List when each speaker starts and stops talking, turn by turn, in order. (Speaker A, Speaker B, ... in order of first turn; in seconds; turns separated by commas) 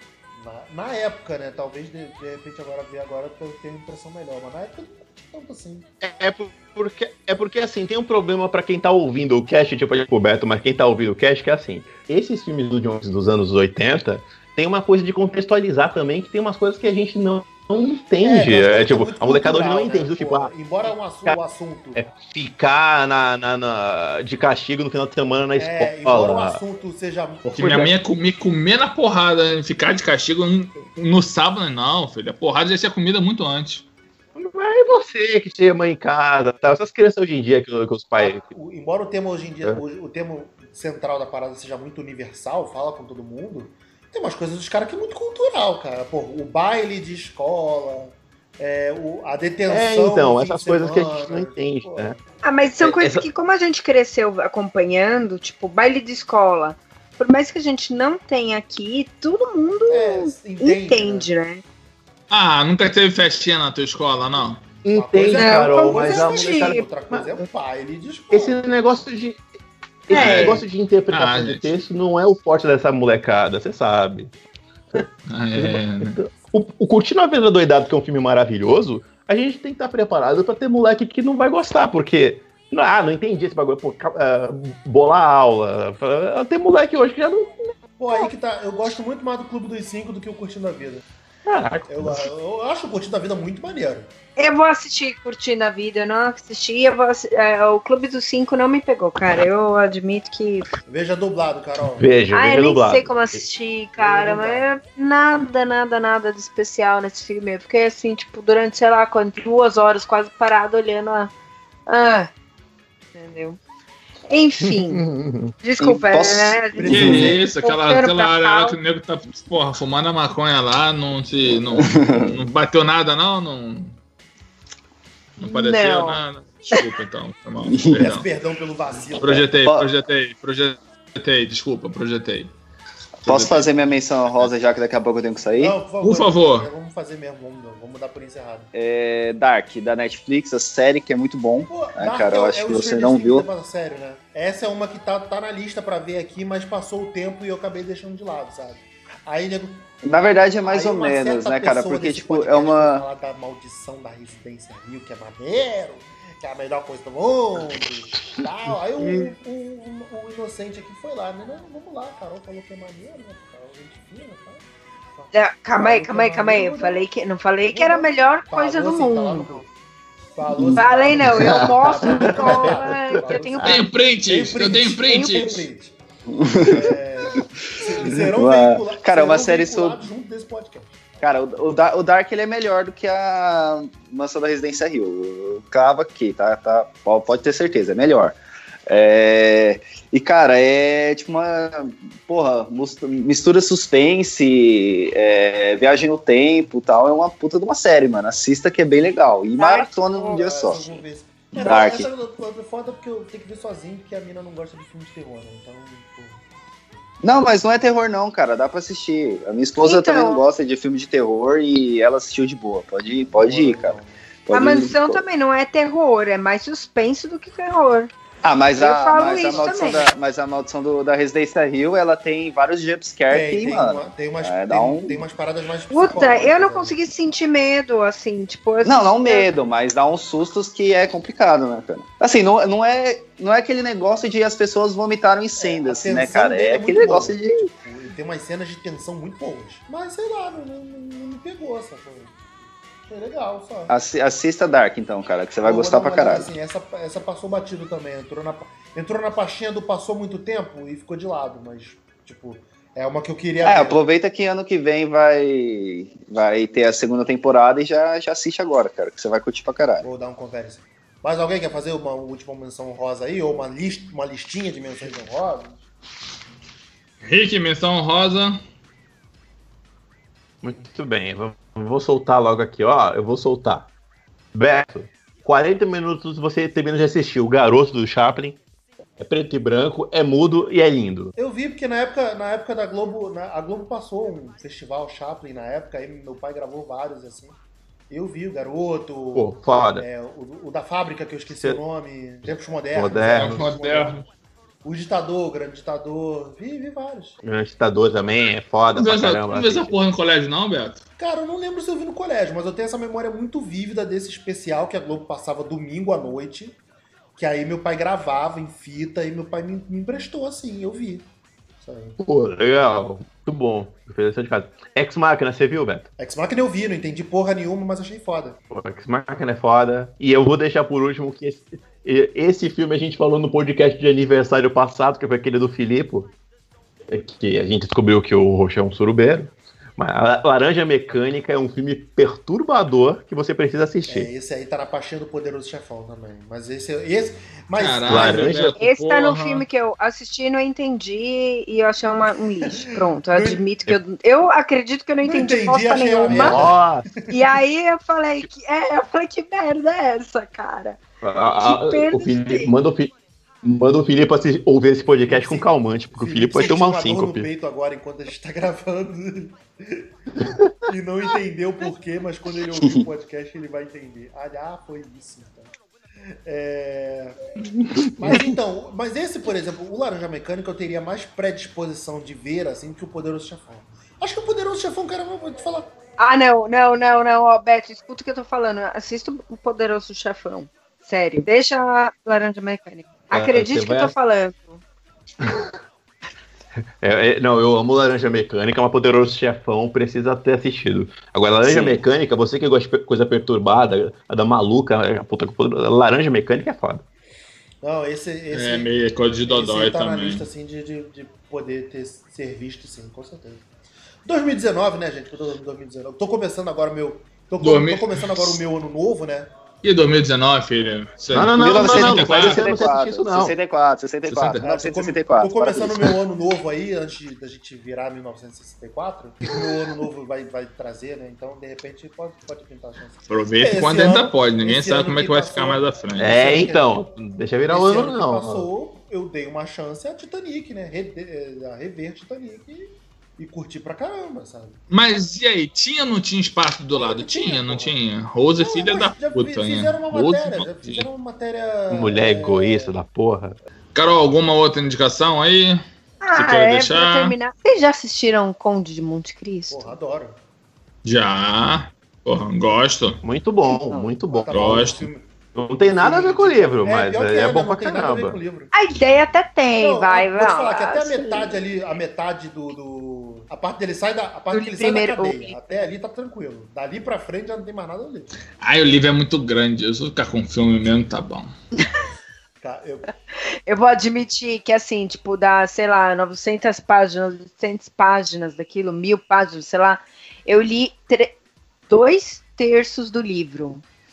Speaker A: 0.3-5.9, Speaker B: 6.0-21.4, Speaker A: 18.2-22.0, Speaker B: 22.0-26.6, Speaker A: 25.6-27.7, Speaker B: 27.5-27.9, Speaker C: 27.5-33.9, Speaker B: 34.4-38.4, Speaker A: 38.2-52.2, Speaker B: 49.7-52.2, Speaker D: 52.4-61.6, Speaker B: 52.8-53.3, Speaker A: 59.9-61.3, Speaker C: 62.3-64.6, Speaker B: 64.8-67.4, Speaker A: 64.9-68.6, Speaker D: 65.3-66.9, Speaker B: 68.3-69.4, Speaker B: 70.1-74.3, Speaker D: 70.1-70.6, Speaker C: 70.1-71.7, Speaker B: 74.9-87.7, Speaker C: 75.3-76.2, Speaker A: 88.0-91.0, Speaker B: 91.5-92.3, Speaker A: 91.9-94.1, Speaker D: 94.4-100.7, Speaker A: 100.9-102.1, Speaker B: 102.0-103.4, Speaker D: 102.3-111.3, Speaker A: 104.0-104.7, Speaker D: 111.9-112.3, Speaker D: 113.2-113.6, Speaker D: 114.3-115.0, Speaker B: 114.6-115.5, Speaker D: 115.6-118.8, Speaker E: 115.8-116.6, Speaker A: 116.8-117.5, Speaker C: 116.9-124.0, Speaker B: 116.9-117.4, Speaker E: 121.7-122.4, Speaker C: 125.4-128.3, Speaker D: 125.4-126.8, Speaker E: 127.7-128.1, Speaker A: 128.0-129.6, Speaker C: 129.2-132.5, Speaker E: 129.6-129.9, Speaker C: 133.3-134.5, Speaker E: 133.3-135.8, Speaker A: 135.5-138.7, Speaker C: 136.0-136.7, Speaker E: 138.7-143.5, Speaker A: 141.7-149.9, Speaker E: 150.0-153.1, Speaker A: 150.7-167.0, Speaker D: 165.3-169.6, Speaker A: 167.7-169.7, Speaker A: 170.3-176.0, Speaker B: 170.6-173.8, Speaker D: 170.8-173.8, Speaker C: 173.6-175.6, Speaker D: 175.2-175.6, Speaker E: 176.3-176.9, Speaker A: 176.5-181.0, Speaker E: 178.1-180.1, Speaker E: 181.2-188.4, Speaker E: 188.9-201.0, Speaker D: 199.6-200.4, Speaker A: 200.1-206.4, Speaker E: 201.6-202.1, Speaker E: 207.2-215.2, Speaker D: 209.8-210.4, Speaker A: 213.3-214.2, Speaker D: 214.5-218.1, Speaker E: 218.4-225.3, Speaker D: 218.8-220.1, Speaker A: 219.4-219.9, Speaker A: 223.3-227.0, Speaker D: 225.9-229.5, Speaker E: 228.8-237.7, Speaker A: 235.6-242.3, Speaker A: 243.1-243.9, Speaker E: 243.9-246.5, Speaker A: 245.6-254.0, Speaker E: 253.6-260.1, Speaker A: 260.0-265.8, Speaker C: 267.2-268.6, Speaker B: 270.6-273.9, Speaker B: 274.5-278.6, Speaker B: 279.2-281.3, Speaker A: 281.4-287.6, Speaker A: 288.1-294.2, Speaker B: 289.4-290.1, Speaker B: 291.5-291.8, Speaker B: 292.4-293.7, Speaker C: 293.4-294.2, Speaker A: 294.8-297.4, Speaker B: 297.4-300.0, Speaker C: 298.9-301.0, Speaker A: 301.2-306.8, Speaker A: 307.4-312.2, Speaker B: 312.2-316.1, Speaker A: 316.2-318.6, Speaker B: 318.7-326.3, Speaker B: 327.1-334.3, Speaker A: 334.1-338.5, Speaker C: 337.8-339.6, Speaker B: 338.1-338.8, Speaker D: 338.8-346.6, Speaker A: 342.8-343.6, Speaker A: 345.2-347.3, Speaker B: 346.3-347.1, Speaker D: 347.3-351.0, Speaker B: 351.2-357.5, Speaker D: 351.6-352.7, Speaker A: 355.3-360.1, Speaker A: 360.9-365.7, Speaker A: 366.4-367.4, Speaker A: 368.2-375.9, Speaker B: 368.2-368.6, Speaker D: 376.2-384.8, Speaker B: 383.3-384.1, Speaker B: 385.4-385.7, Speaker B: 387.0-397.1, Speaker E: 391.7-392.0, Speaker A: 397.8-398.9, Speaker C: 398.5-400.5, Speaker A: 399.5-403.6, Speaker A: 404.2-409.5, Speaker C: 407.6-408.6, Speaker C: 409.8-412.7, Speaker B: 411.3-413.6, Speaker E: 411.6-416.2, Speaker C: 414.3-414.6, Speaker A: 414.6-427.1, Speaker C: 423.3-426.6, Speaker B: 426.2-428.7, Speaker A: 427.7-434.8, Speaker C: 434.9-441.1, Speaker A: 436.9-438.0, Speaker A: 438.6-442.9, Speaker B: 441.9-443.6, Speaker C: 443.9-445.8, Speaker D: 446.2-449.9, Speaker C: 446.4-447.4, Speaker A: 449.7-450.4, Speaker C: 451.0-453.2, Speaker B: 453.2-454.9, Speaker D: 453.7-454.1, Speaker A: 454.2-455.3, Speaker C: 454.5-455.1, Speaker B: 455.5-458.4, Speaker A: 455.8-458.7, Speaker D: 458.7-461.6, Speaker A: 459.8-468.3, Speaker D: 464.5-465.9, Speaker C: 468.6-471.5, Speaker A: 472.6-473.1, Speaker D: 473.7-481.4, Speaker D: 481.9-483.8